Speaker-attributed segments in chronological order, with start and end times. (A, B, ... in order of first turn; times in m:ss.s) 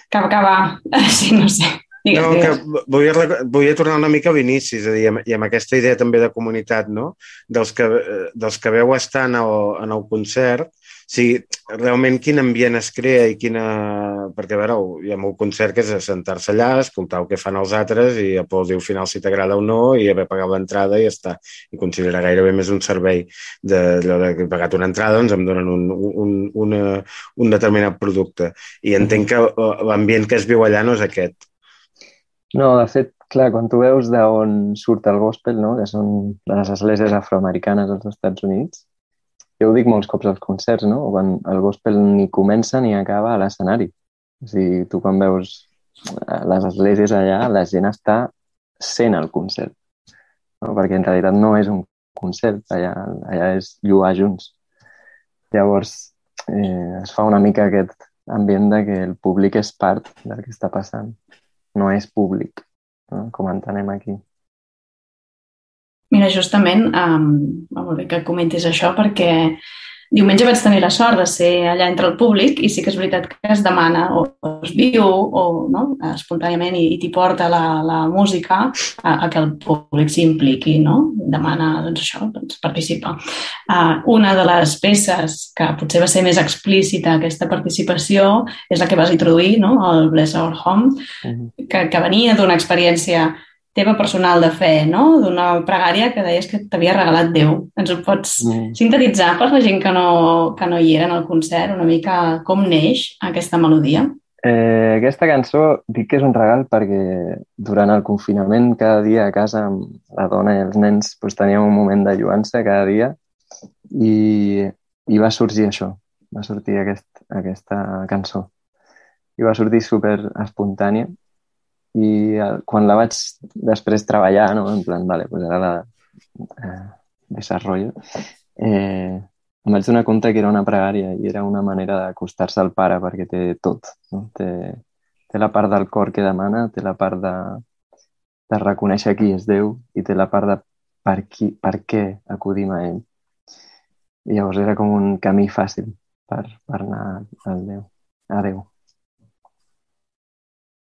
0:00.1-0:02.6 A
0:02.1-0:31.4 B
0:32.5-0:38.8 C
0:39.6-0:49.8 C
0:50.6-0:54.5 C
0:55.5-1:01.2 C
1:01.8-1:04.2 C
1:06.1-1:09.6 A
1:10.1-1:23.2 A
1:23.7-1:31.0 A
1:31.2-1:31.5 C
1:31.6-1:44.1 A
1:38.4-1:38.8 C
1:44.4-1:53.2 C
1:53.9-1:58.5 C
1:59.4-2:01.1 C
2:01.9-2:05.9 C
2:06.4-2:07.9 C
2:08.6-2:17.6 C
2:18.5-2:23.0 C
2:24.3-2:28.7 C